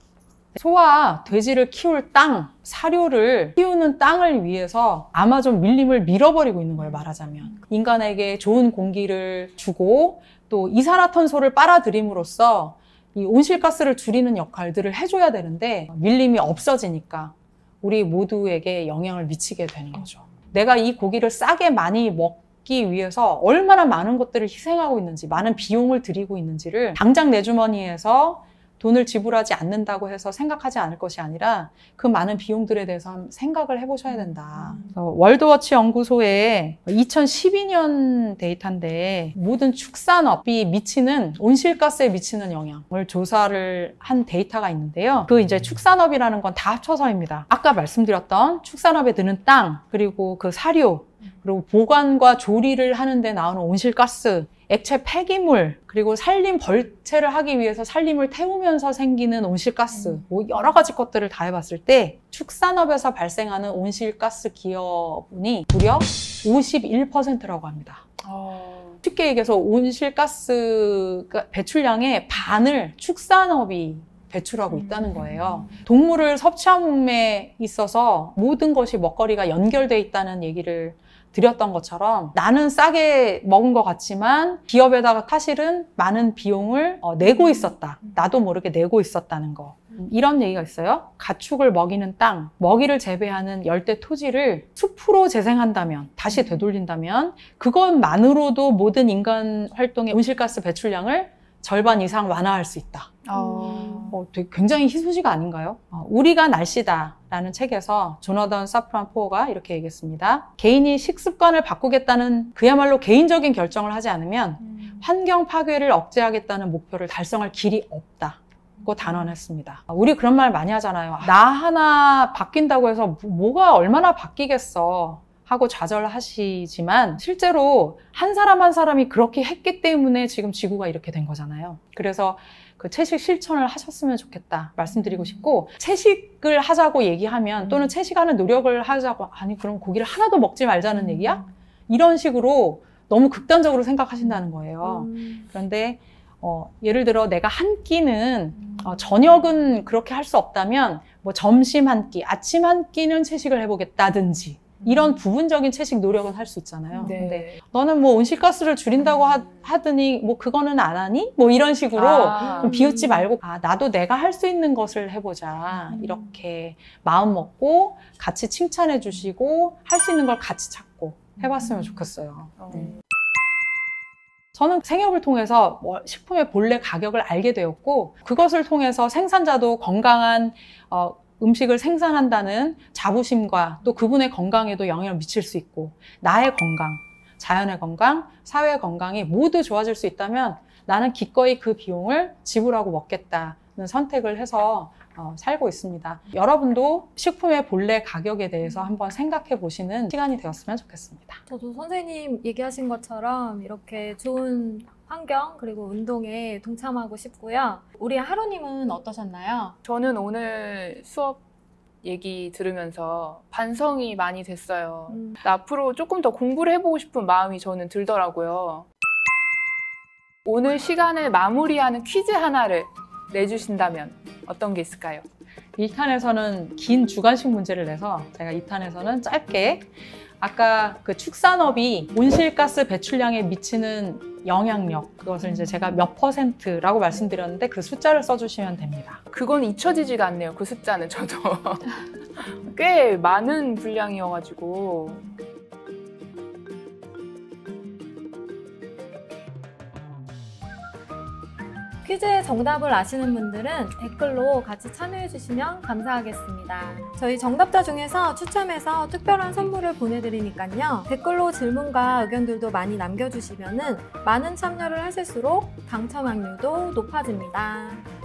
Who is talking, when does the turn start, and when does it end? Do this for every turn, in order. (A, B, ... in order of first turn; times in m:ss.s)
0:00.6-1:08.1 A
1:08.2-1:09.0 B
1:09.0-2:53.0 A
1:43.2-1:44.2 B
1:54.6-1:55.0 B
2:34.8-2:35.1 B
2:37.0-2:37.6 B
2:42.0-2:42.8 B
2:42.8-2:43.2 C
2:52.6-2:52.9 B
2:54.6-3:21.4 A
3:21.5-3:29.8 C
3:29.8-3:31.4 B
3:32.0-3:38.9 B
3:40.5-3:45.2 B
3:45.8-3:49.9 A
3:50.4-3:59.2 A
3:59.3-4:05.3 B
4:12.0-4:28.0 C